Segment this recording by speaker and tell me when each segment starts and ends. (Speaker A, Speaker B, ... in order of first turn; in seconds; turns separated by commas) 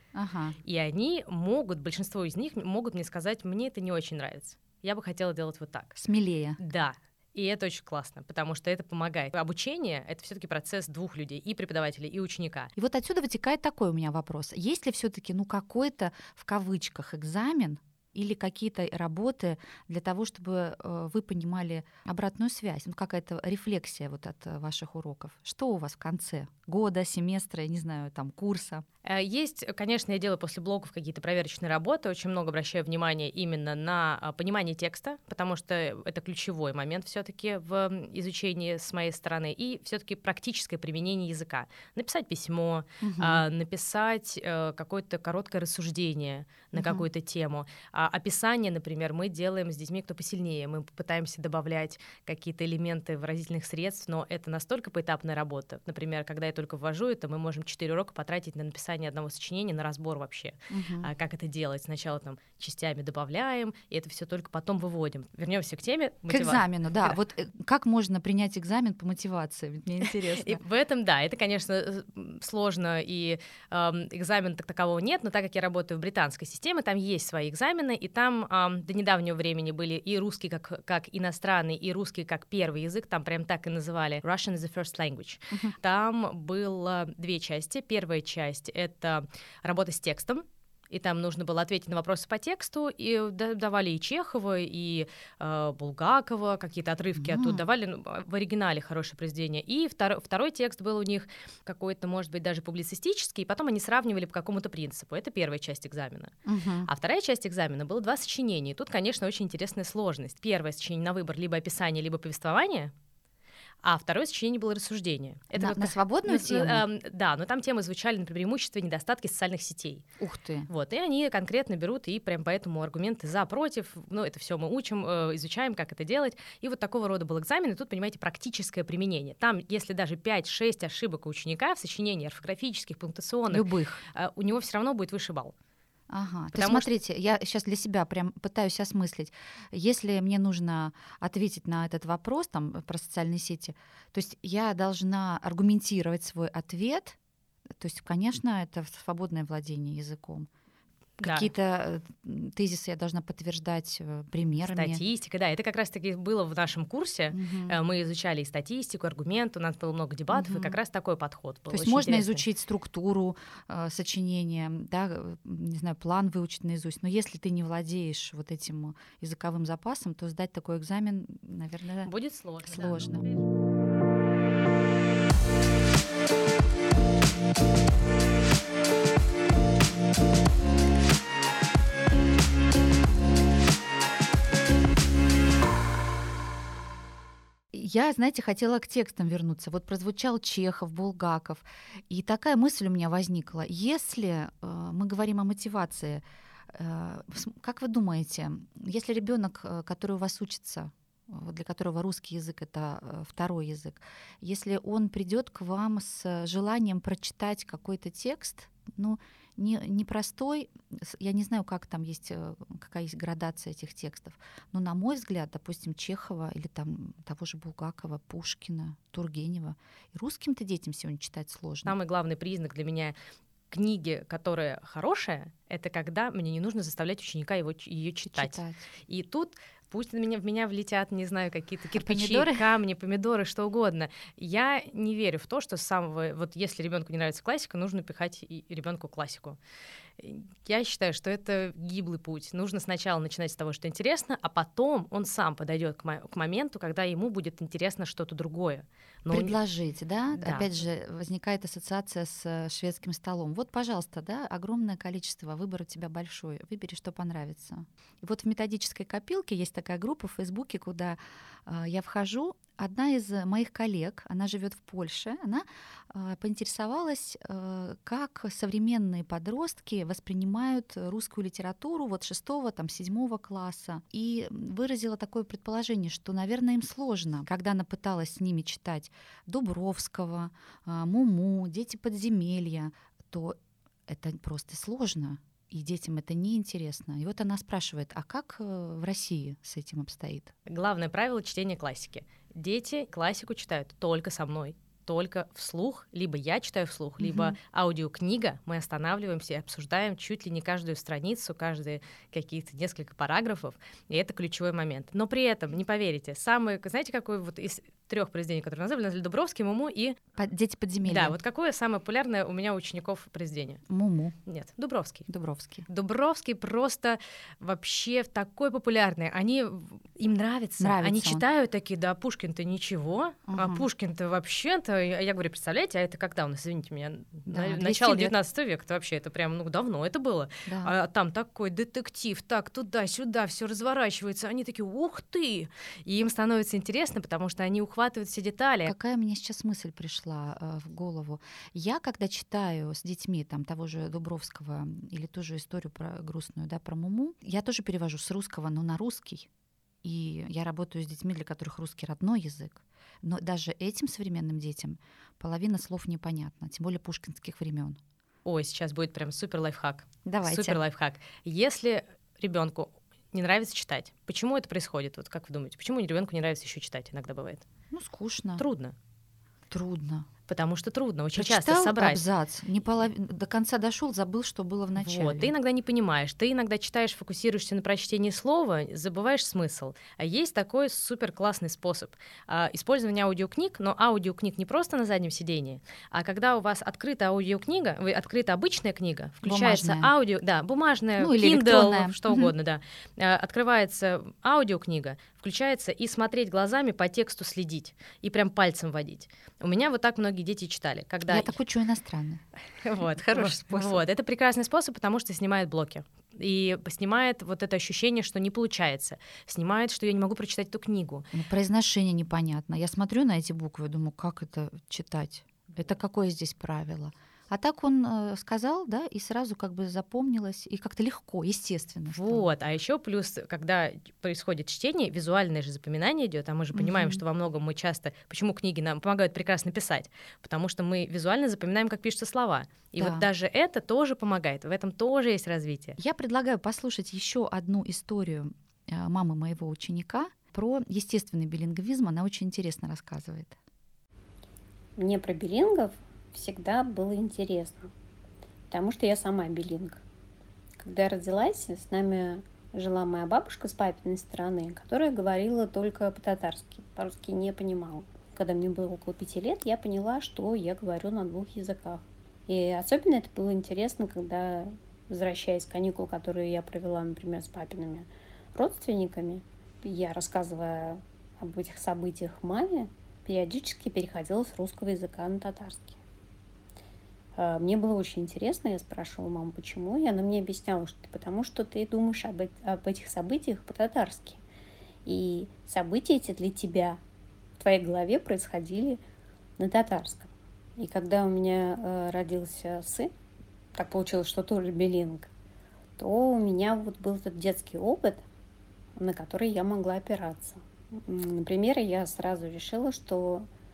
Speaker A: 0.1-0.6, Speaker B: 0.6-6.0, Speaker A: 6.0-6.6, Speaker B: 6.6-12.7, Speaker A: 12.8-28.8, Speaker B: 29.0-67.2, Speaker A: 43.0-43.4, Speaker A: 46.7-47.0, Speaker A: 60.7-61.1, Speaker A: 66.3-70.6, Speaker B: 70.3-106.3, Speaker A: 97.2-97.7, Speaker A: 106.4-106.9, Speaker B: 106.8-112.9, Speaker B: 113.8-120.0, Speaker A: 115.5-116.8, Speaker A: 120.2-120.7, Speaker B: 120.7-135.5, Speaker A: 133.5-134.0, Speaker A: 136.1-147.2, Speaker B: 136.5-136.9, Speaker A: 147.8-150.5, Speaker B: 151.2-151.5, Speaker A: 151.2-155.0, Speaker B: 154.6-162.4, Speaker A: 157.3-157.8, Speaker A: 160.3-160.8, Speaker A: 161.7-172.1, Speaker B: 172.0-173.4, Speaker A: 172.6-173.3, Speaker A: 187.7-221.9, Speaker B: 221.8-223.1, Speaker B: 223.7-239.6, Speaker A: 228.3-228.8, Speaker A: 231.9-232.7, Speaker B: 240.2-249.6, Speaker A: 249.3-290.5, Speaker B: 250.3-250.7, Speaker B: 290.6-310.2, Speaker A: 297.2-297.6, Speaker A: 310.4-311.4, Speaker B: 311.0-313.8, Speaker A: 313.9-314.4, Speaker B: 314.4-315.3, Speaker A: 315.3-315.9, Speaker B: 315.9-338.9, Speaker A: 320.8-321.4, Speaker A: 323.5-323.9, Speaker A: 327.5-328.3, Speaker A: 330.6-330.9, Speaker A: 338.9-349.5, Speaker A: 350.0-358.0, Speaker B: 358.4-367.6, Speaker A: 360.2-360.8, Speaker A: 367.9-368.6, Speaker B: 368.6-368.9, Speaker A: 369.7-370.3, Speaker B: 370.5-372.2, Speaker A: 371.4-375.5, Speaker B: 374.9-401.6, Speaker A: 389.4-390.1, Speaker A: 391.2-392.5, Speaker A: 401.2-402.4, Speaker B: 402.8-411.2, Speaker A: 403.1-404.0, Speaker A: 411.3-422.5, Speaker B: 422.1-436.0, Speaker A: 426.7-427.2, Speaker A: 433.0-433.2, Speaker A: 436.0-443.6, Speaker C: 445.0-447.9, Speaker C: 448.7-450.0, Speaker C: 450.8-476.0, Speaker C: 477.4-484.4, Speaker C: 485.1-487.0, Speaker C: 487.6-489.0, Speaker C: 489.6-493.1, Speaker C: 493.8-495.3, Speaker C: 496.0-498.2, Speaker C: 499.0-503.5